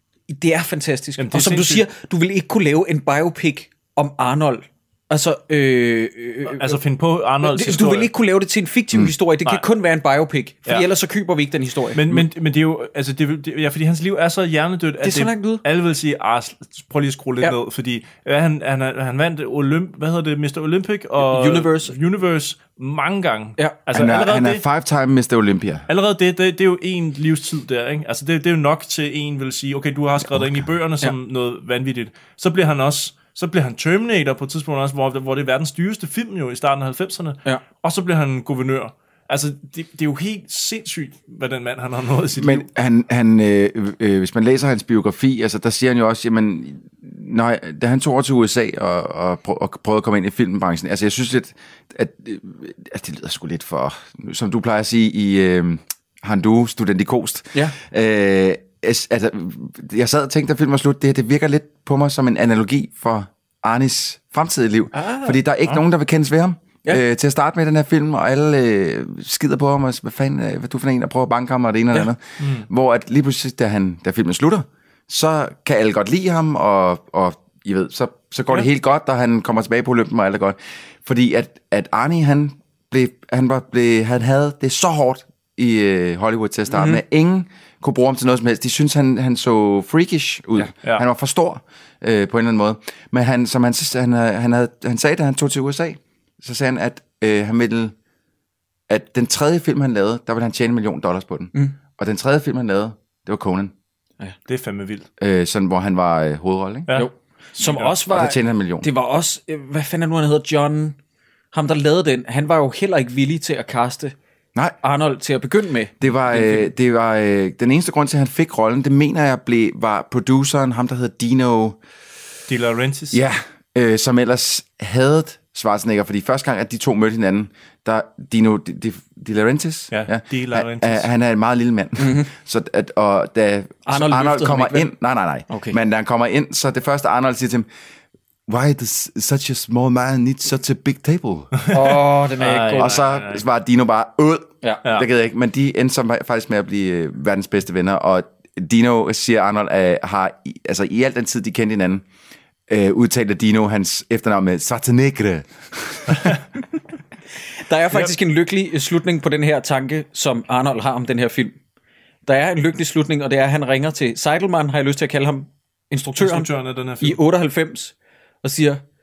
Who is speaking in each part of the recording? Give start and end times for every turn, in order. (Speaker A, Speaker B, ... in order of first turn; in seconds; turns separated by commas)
Speaker A: 0.3-6.8, Speaker B: 1.2-1.8, Speaker B: 6.5-8.1, Speaker A: 7.4-12.0, Speaker B: 11.9-24.6, Speaker A: 15.0-15.6, Speaker A: 21.2-21.9, Speaker C: 23.9-25.9, Speaker B: 25.9-42.6, Speaker C: 30.3-30.6, Speaker C: 42.4-97.9, Speaker A: 64.9-65.4, Speaker B: 72.4-72.7, Speaker A: 86.7-87.0, Speaker C: 98.9-103.7, Speaker B: 104.5-105.1, Speaker C: 105.2-106.9, Speaker A: 106.9-111.0, Speaker B: 107.6-108.0, Speaker C: 108.1-108.8, Speaker A: 111.5-114.1, Speaker A: 114.8-116.5, Speaker C: 116.0-121.8, Speaker B: 122.5-123.2, Speaker C: 123.1-137.7, Speaker B: 129.9-131.1, Speaker A: 132.0-132.3, Speaker A: 133.9-134.9, Speaker A: 135.5-135.8, Speaker C: 138.5-141.6, Speaker B: 141.6-143.4, Speaker A: 141.7-143.0, Speaker C: 142.7-152.0, Speaker C: 152.7-156.3, Speaker A: 157.7-161.6, Speaker A: 162.2-168.8, Speaker B: 166.2-167.2